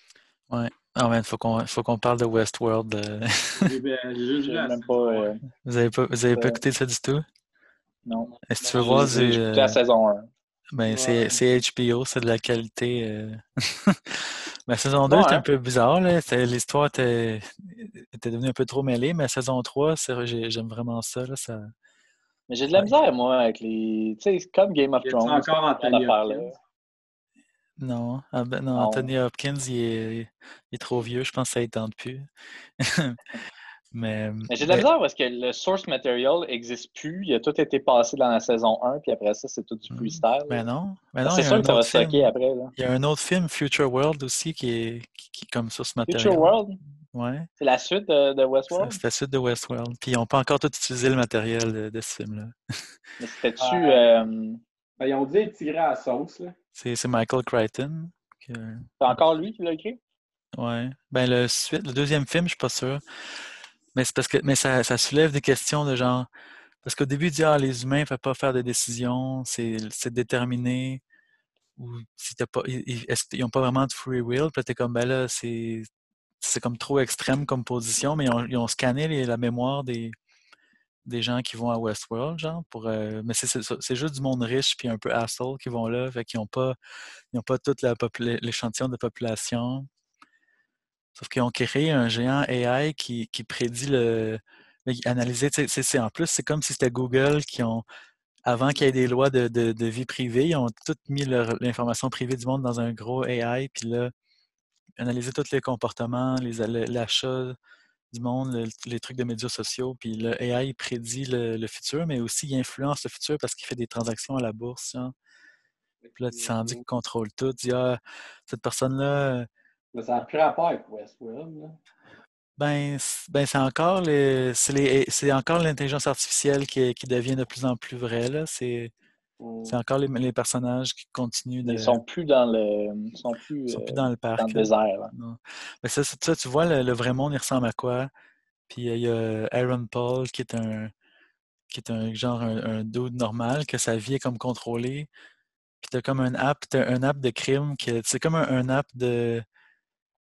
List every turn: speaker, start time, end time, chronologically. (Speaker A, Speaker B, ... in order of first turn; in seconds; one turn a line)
Speaker A: 0.5-3.5
Speaker B: 3.5-5.3
Speaker C: 4.5-5.4
Speaker A: 5.6-7.2
Speaker C: 6.3-6.6
Speaker C: 8.1-10.3
Speaker B: 8.2-9.2
Speaker A: 8.4-9.8
Speaker A: 10.7-21.6
Speaker B: 10.9-11.4
Speaker C: 15.1-15.4
Speaker C: 22.5-26.5
Speaker B: 25.0-26.5
Speaker A: 27.8-32.3
Speaker C: 28.7-29.1
Speaker A: 32.8-33.4
Speaker A: 33.9-34.9
Speaker C: 34.5-40.7
Speaker A: 39.9-46.6
Speaker C: 41.2-42.7
Speaker C: 46.1-46.8
Speaker A: 47.1-47.5
Speaker C: 47.6-49.0
Speaker A: 48.7-52.5
Speaker C: 53.2-54.6
Speaker B: 53.6-54.1
Speaker B: 55.0-56.5
Speaker A: 56.8-59.2
Speaker C: 59.0-60.0
Speaker A: 60.5-63.0
Speaker A: 63.9-66.3
Speaker A: 66.8-71.0
Speaker A: 71.8-75.8
Speaker A: 76.4-80.1
Speaker A: 81.0-86.8
Speaker A: 87.3-89.9
Speaker A: 91.2-97.8
Speaker A: 98.5-104.1
Speaker A: 105.0-107.5
Speaker A: 108.1-115.1
Speaker B: 116.0-116.8
Speaker A: 116.2-119.5
Speaker B: 119.9-121.8
Speaker A: 122.6-128.9
Speaker B: 129.4-129.8
Speaker A: 129.7-132.0
Speaker C: 131.6-135.1
Speaker A: 133.7-138.1
Speaker A: 138.7-140.9
Speaker A: 141.7-145.1
Speaker A: 145.8-149.4